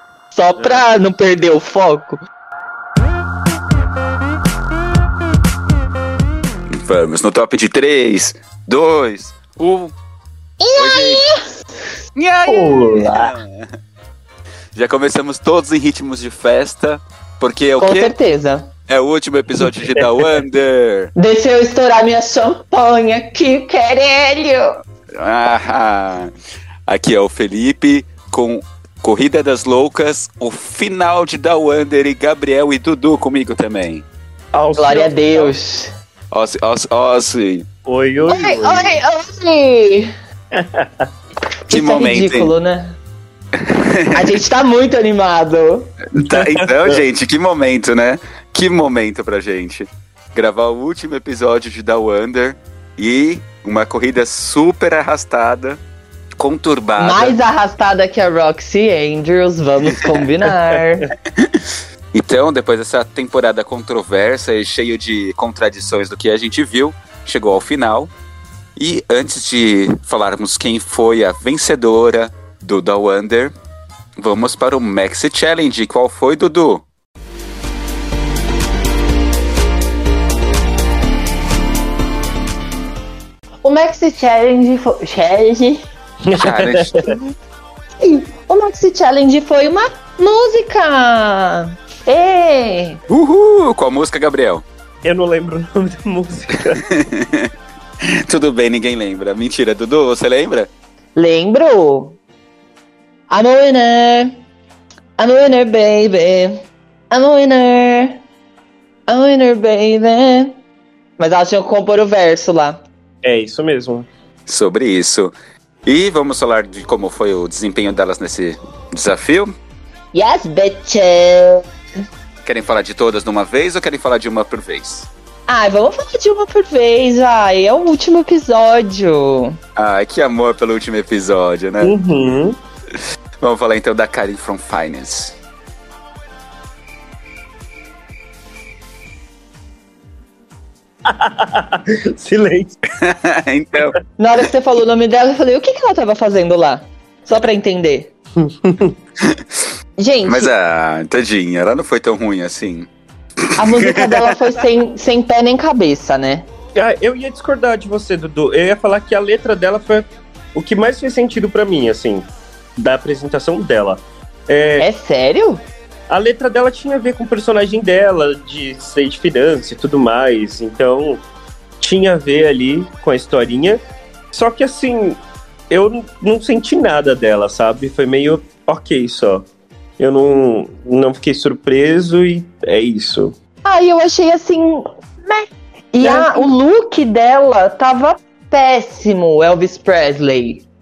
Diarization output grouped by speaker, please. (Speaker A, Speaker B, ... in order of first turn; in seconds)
Speaker A: 0.3-2.2, 10.6-11.4, 17.8-18.7, 21.1-24.8, 34.8-35.9, 38.3-40.1, 41.7-43.0, 44.1-45.9, 57.0-61.1, 83.6-85.8, 88.0-93.0, 101.2-102.2, 103.3-104.3, 105.2-106.6, 107.1-108.2, 109.1-110.6, 111.2-112.8, 120.1-121.6, 125.5-129.5, 144.2-148.1, 150.0-150.5, 153.6-156.5, 164.8-165.6, 183.6-190.6
Speaker B: 0.6-0.9, 12.4-13.3, 19.7-20.3, 34.5-35.5, 37.9-39.0, 40.5-41.1, 46.1-47.0, 86.2-87.1, 95.0-96.8, 113.2-114.1, 131.8-132.6, 141.1-142.8, 148.5-148.9, 156.7-164.9, 166.1-171.2, 171.8-173.8, 174.3-179.4, 180.0-183.3, 186.0-186.5
Speaker C: 6.8-9.9, 10.7-11.2, 12.1-13.7, 14.7-18.1, 18.9-21.1, 25.2-26.3, 26.9-34.0, 36.3-37.7, 41.7-42.5, 43.5-44.3, 46.1-55.8, 56.4-57.4, 61.4-68.1, 68.8-73.5, 74.2-76.8, 86.3-87.1, 93.1-94.6, 96.9-97.5, 98.3-100.7, 114.5-115.3, 115.8-119.5, 122.4-125.1, 129.8-131.9, 133.4-135.3, 143.0-143.9, 149.2-149.6, 150.2-152.9, 153.5-154.4